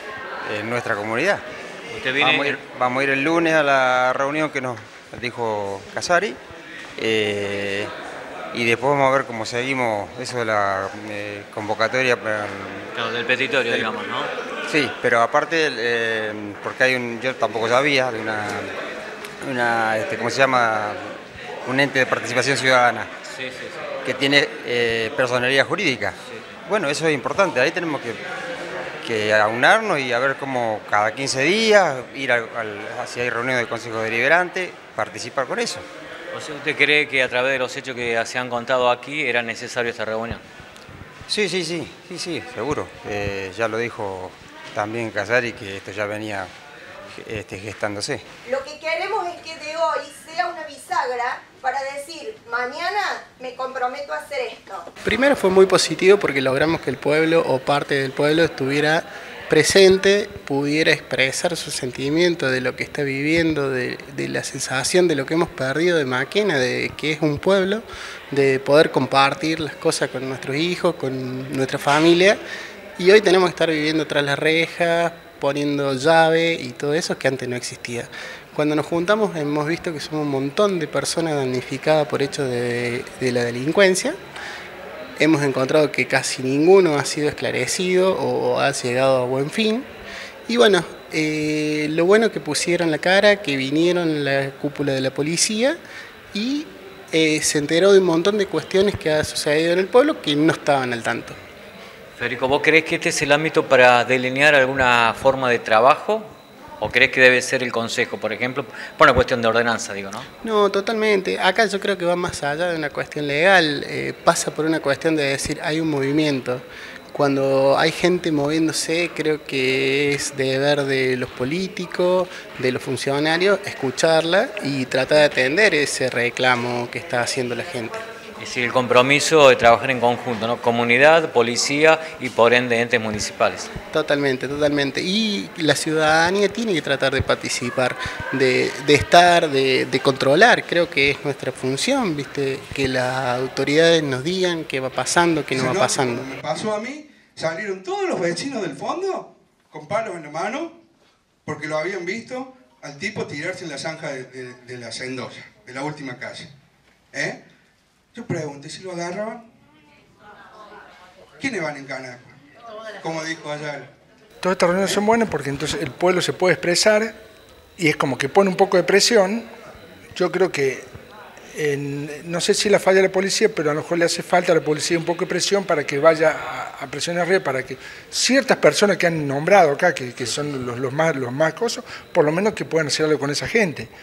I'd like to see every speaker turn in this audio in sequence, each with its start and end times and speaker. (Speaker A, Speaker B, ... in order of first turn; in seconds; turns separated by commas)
Speaker A: 0.4-1.4, Speaker B: 1.9-2.6, Speaker A: 2.2-6.4, Speaker A: 7.0-7.9, Speaker A: 8.5-12.9, Speaker B: 12.9-14.3, Speaker A: 14.7-18.7, Speaker A: 19.4-23.1, Speaker B: 23.3-23.8, Speaker A: 24.0-28.2, Speaker A: 29.0-35.9, Speaker B: 36.3-40.4, Speaker A: 41.3-46.5, Speaker A: 47.1-48.3, Speaker C: 48.4-54.9, Speaker D: 55.0-72.4, Speaker D: 73.0-84.1, Speaker D: 85.2-89.9, Speaker D: 90.5-95.8, Speaker D: 96.3-101.3, Speaker B: 102.2-110.2, Speaker D: 110.4-128.0, Speaker B: 128.4-133.7, Speaker D: 133.9-146.3, Speaker E: 145.5-150.7, Speaker E: 151.4-156.5, Speaker E: 157.1-157.4, Speaker E: 158.1-159.4, Speaker E: 161.4-162.3, Speaker E: 163.0-163.9, Speaker F: 164.4-167.1, Speaker F: 167.8-169.5, Speaker F: 170.2-170.9, Speaker F: 171.5-183.9